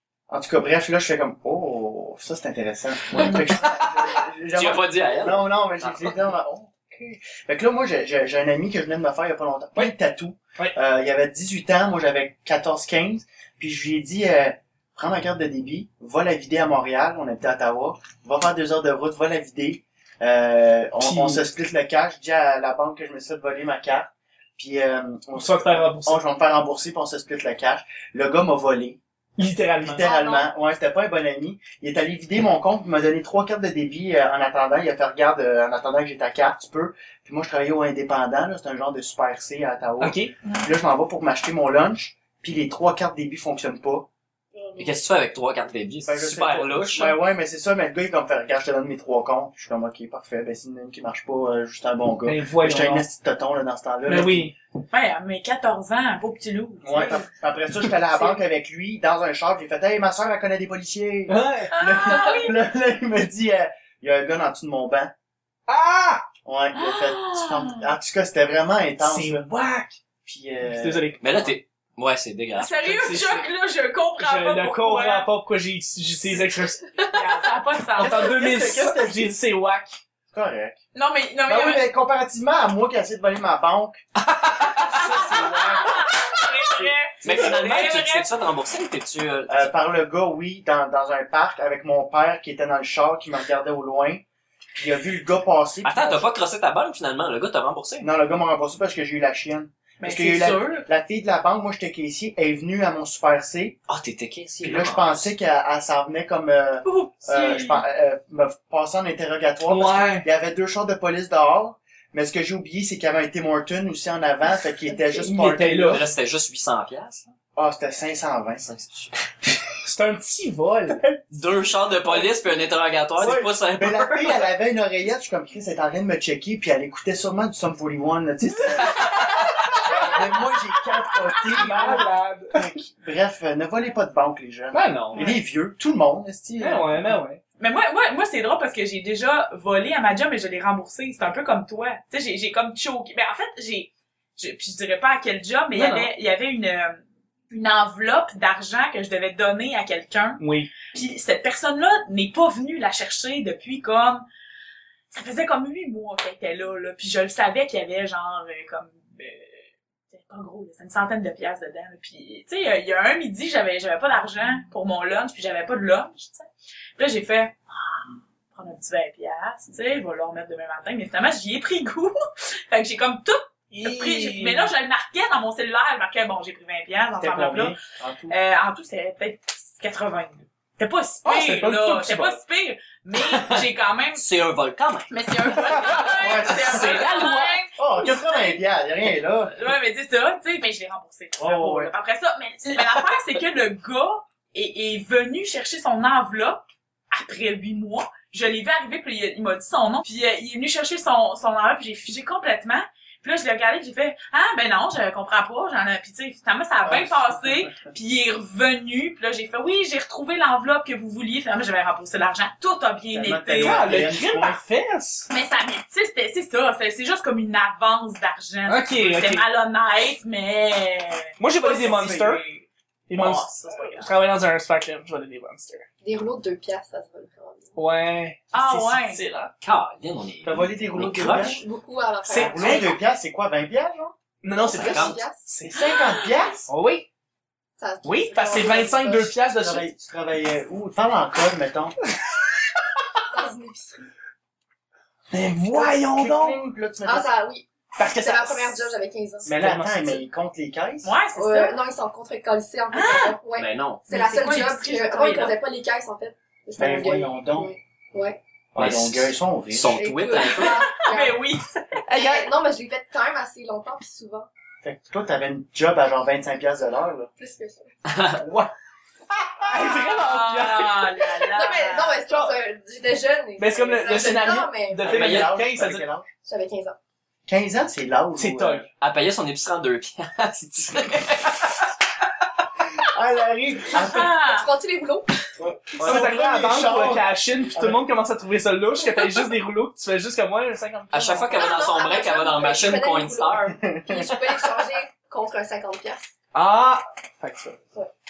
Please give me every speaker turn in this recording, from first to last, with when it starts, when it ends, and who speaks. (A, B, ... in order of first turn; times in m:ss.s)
0:00.3-0:29.0 A
0:03.1-0:06.2 B
0:21.0-0:21.4 C
0:25.3-0:26.2 C
0:29.4-0:30.1 C
0:29.8-0:44.1 A
0:30.0-0:30.5 D
0:40.0-0:40.3 C
0:40.4-0:40.7 D
0:44.6-0:44.9 E
0:44.8-0:47.2 B
0:46.0-0:54.5 A
0:52.2-0:53.0 C
0:54.1-0:54.5 C
0:54.9-0:57.3 D
0:56.8-1:05.1 A
1:01.3-1:01.8 C
1:01.7-1:02.6 D
1:05.7-1:06.2 C
1:06.4-1:09.4 A
1:06.8-1:07.9 D
1:09.0-1:10.0 C
1:10.2-1:11.5 A
1:10.6-1:11.2 C
1:11.2-1:13.3 B
1:12.6-1:15.3 D
1:12.9-1:13.5 C
1:14.2-1:16.9 C
1:17.1-1:18.3 D
1:18.0-1:20.0 C
1:18.0-1:19.3 A
1:20.3-1:20.8 A
1:20.9-1:21.8 D
1:21.5-1:24.0 A
1:24.4-1:24.7 B
1:24.8-1:27.8 C
1:24.8-1:28.3 D
1:27.2-1:29.7 B
1:29.5-1:34.2 A
1:34.8-1:36.3 A
1:35.8-1:38.1 B
1:38.0-1:43.8 A
1:40.0-1:40.9 D
1:43.9-1:45.3 B
1:44.6-1:56.0 A
1:46.8-1:47.8 D
1:49.7-1:50.3 C
1:54.9-1:55.2 E
1:55.2-1:56.0 C
1:55.9-1:57.3 B
1:57.6-1:58.6 A
1:58.6-1:59.2 B
1:59.8-2:01.0 C
2:00.9-2:01.2 A
2:01.3-2:04.5 B
2:03.2-2:17.2 A
2:09.9-2:10.1 D
2:11.4-2:12.0 D
2:11.4-2:12.6 C
2:14.7-2:15.4 C
2:16.6-2:17.4 C
2:17.6-2:34.2 D
2:25.7-2:26.1 C
2:30.4-2:30.7 C
2:35.1-2:52.2 D
2:52.7-2:57.8 D
2:53.7-2:54.7 C
2:57.2-2:58.3 A
2:58.3-3:04.2 D
3:01.2-3:02.4 C
3:03.3-3:05.1 B
3:05.1-3:08.6 D
3:05.7-3:07.5 C
3:06.2-3:07.1 A
3:07.8-3:09.6 A
3:09.5-3:34.0 D
3:11.4-3:11.9 A
3:26.8-3:27.9 A
3:33.1-3:34.6 A
3:33.6-3:35.3 C
3:35.3-3:44.1 D
3:38.7-3:39.4 C
3:41.4-3:42.4 C
3:41.6-3:42.3 A
3:43.1-3:45.9 C
3:46.0-3:47.8 E
3:47.8-3:49.5 C
3:48.5-3:49.2 D
3:49.6-3:51.6 B
3:50.4-3:51.6 A
3:51.2-3:53.0 E
3:52.2-3:53.0 C
3:52.3-3:54.1 A
3:54.4-3:55.8 C
3:54.6-3:55.4 E
3:54.8-3:55.2 B
3:55.7-3:56.7 A
3:55.8-3:56.5 D
3:56.7-3:57.0 C
3:57.8-3:59.3 E
3:58.0-3:59.9 C
3:59.0-4:01.9 A
4:03.3-4:04.1 E
4:05.3-4:06.6 C
4:05.7-4:07.3 A
4:07.0-4:09.6 E
4:08.0-4:08.8 C
4:09.4-4:11.1 A
4:09.5-4:10.2 C
4:11.0-4:11.8 D
4:11.3-4:18.4 E
4:12.9-4:13.4 D
4:13.5-4:14.0 B
4:14.1-4:15.6 D
4:16.8-4:17.7 A
4:18.7-4:20.0 A
4:18.8-4:20.9 B
4:19.9-4:21.4 E
4:20.4-4:22.1 D
4:22.1-4:22.5 C
4:22.1-4:24.5 E
4:24.8-4:27.3 A
4:27.4-4:27.9 E
4:28.1-4:28.4 B
4:29.6-4:31.4 C
4:30.1-4:32.2 D
4:31.5-4:35.3 E
4:33.6-4:36.0 C
4:35.0-4:36.3 A
4:35.0-4:35.5 B
4:36.4-4:37.0 E
4:37.5-4:38.9 A
4:38.4-4:38.9 C
4:39.0-4:41.9 B
4:43.0-4:44.4 A
4:43.9-4:44.7 D
4:44.0-4:45.4 E
4:45.6-4:51.5 C
4:46.0-4:48.0 A
4:46.0-4:46.3 B
4:51.1-4:53.8 B
4:51.5-4:56.3 E
4:53.8-4:54.4 A
4:56.5-4:57.8 C